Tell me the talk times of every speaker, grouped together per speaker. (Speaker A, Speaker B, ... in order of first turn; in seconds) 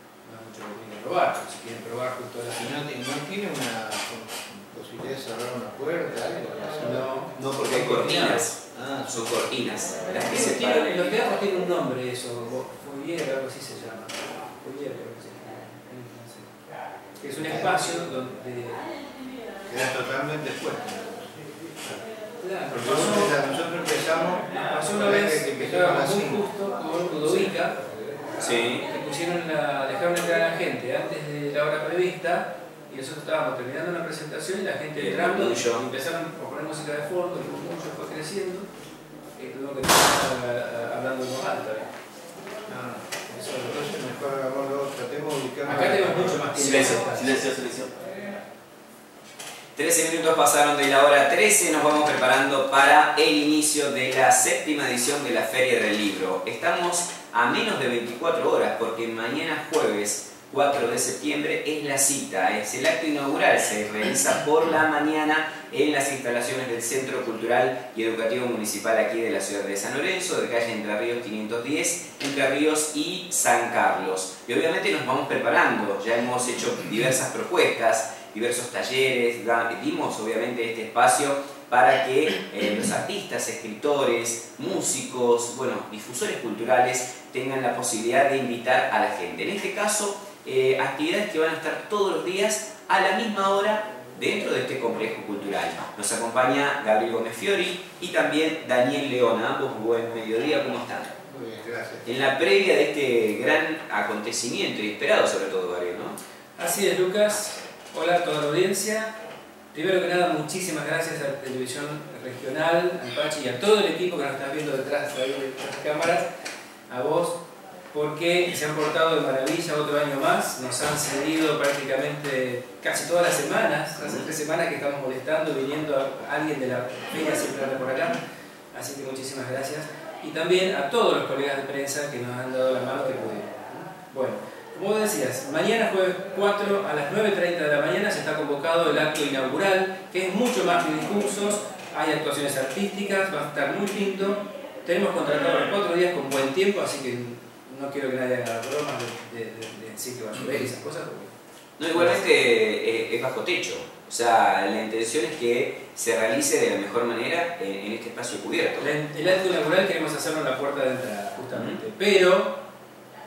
Speaker A: 0.2-2.8, 6.8-8.5, 10.2-16.5, 17.2-18.9, 22.4-23.4, 24.6-27.8, 28.7-38.7, 39.4-41.9, 45.6-47.4, 106.5-109.1, 109.7-116.3, 116.9-117.4, 117.9-128.2, 128.7-151.3, 151.9-152.4, 158.8-162.6
Speaker B: 2.6-7.5, 8.7-9.5, 17.4-17.9, 19.7-22.0, 22.7-26.4, 42.7-46.5, 101.3-102.1
Speaker C: 7.4-11.2, 28.4-28.9, 35.0-35.8, 46.5-47.9, 49.8-101.1, 102.0-106.2, 124.0-124.3, 151.8-158.9, 161.5-161.8